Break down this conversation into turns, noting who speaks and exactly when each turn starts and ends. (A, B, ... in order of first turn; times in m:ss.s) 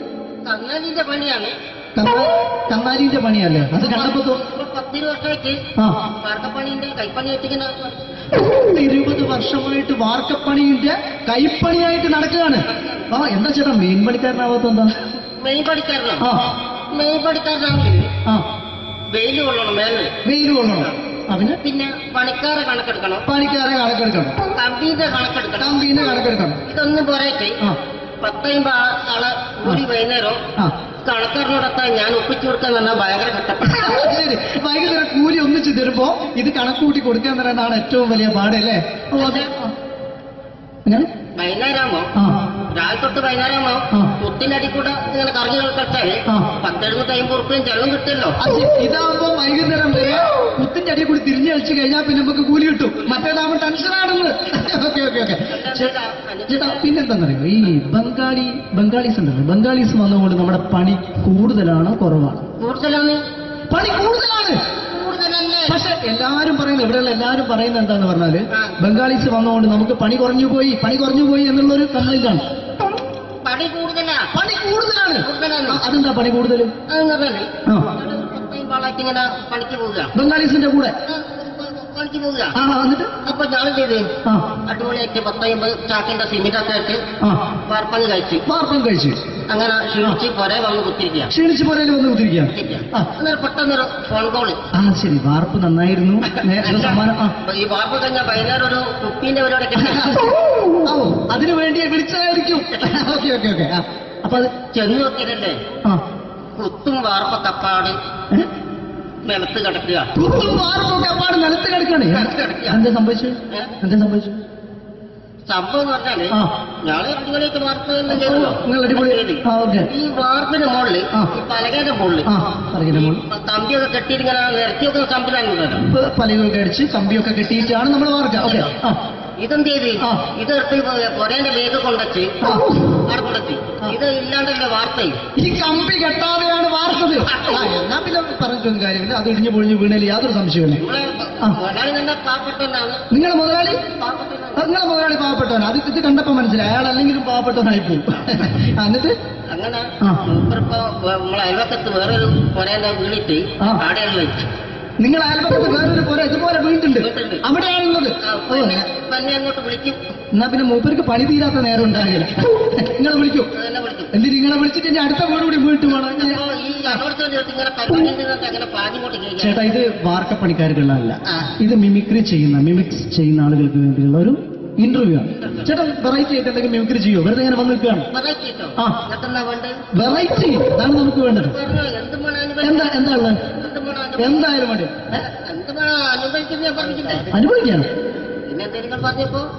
0:00.5-0:01.5 A
0:02.0-0:04.4 B
0:03.8-0:05.6 A
0:06.2-0:08.0 A
0:08.5-0:14.9 B
0:15.4-0:16.2 A
0:16.9-0:18.0 A
0:19.1-0:20.1 A
0:20.3-0:21.6 B
0:21.6-0:23.2 A
0:23.3-0:24.4 B
0:24.5-0:26.1 A
0:25.6-0:26.6 B
0:26.7-0:27.5 A
0:28.2-0:30.4 A
0:31.1-0:34.0 A
0:33.8-0:39.7 B
0:39.2-0:39.5 A
0:41.4-0:42.1 A
0:42.7-0:48.4 A
0:48.4-0:55.9 B
0:55.6-0:56.6 A
0:56.5-1:02.4 B
1:02.6-1:03.2 A
1:03.7-1:04.6 B
1:04.9-1:05.7 A
1:05.7-1:12.4 B
1:13.4-1:14.3 A
1:14.3-1:16.7 B
1:15.2-1:15.8 A
1:16.9-1:20.1 A
1:20.2-1:21.0 B
1:21.1-1:22.5 A
1:22.6-1:23.1 B
1:23.2-1:24.1 A
1:24.7-1:27.0 A
1:27.7-1:28.4 A
1:28.5-1:29.2 B
1:29.5-1:31.3 A
1:31.3-1:33.1 B
1:32.5-1:34.6 A
1:34.8-1:37.3 B
1:36.7-1:40.1 A
1:39.8-1:40.1 B
1:40.8-1:44.6 B
1:44.7-1:45.6 A
1:46.6-1:48.0 A
1:49.2-1:50.1 A
1:50.2-1:54.3 B
1:52.1-1:52.8 A
1:55.5-1:56.3 A
1:56.9-1:59.4 A
1:58.1-1:59.9 B
2:00.0-2:02.3 A
2:02.3-2:03.2 B
2:03.0-2:05.9 A
2:05.9-2:09.0 B
2:09.4-2:12.3 A
2:12.4-2:12.8 B
2:13.1-2:15.2 A
2:15.4-2:20.8 B
2:17.3-2:17.8 A
2:20.8-2:23.0 A
2:23.1-2:23.8 B
2:24.0-2:24.6 A
2:24.6-2:29.1 B
2:29.5-2:34.4 A
2:35.0-2:38.8 B
2:37.0-2:37.4 A
2:38.2-2:40.0 A
2:40.4-2:43.5 B
2:43.6-2:44.1 A
2:44.2-2:46.4 B
2:46.1-2:49.6 A
2:49.4-2:58.1 B
2:58.1-2:59.8 A
3:00.0-3:01.6 B
3:01.5-3:02.9 A
3:02.6-3:03.4 B
3:03.6-3:04.4 A
3:04.2-3:05.2 B
3:05.2-3:07.3 A
3:07.3-3:07.9 B
3:08.5-3:09.5 A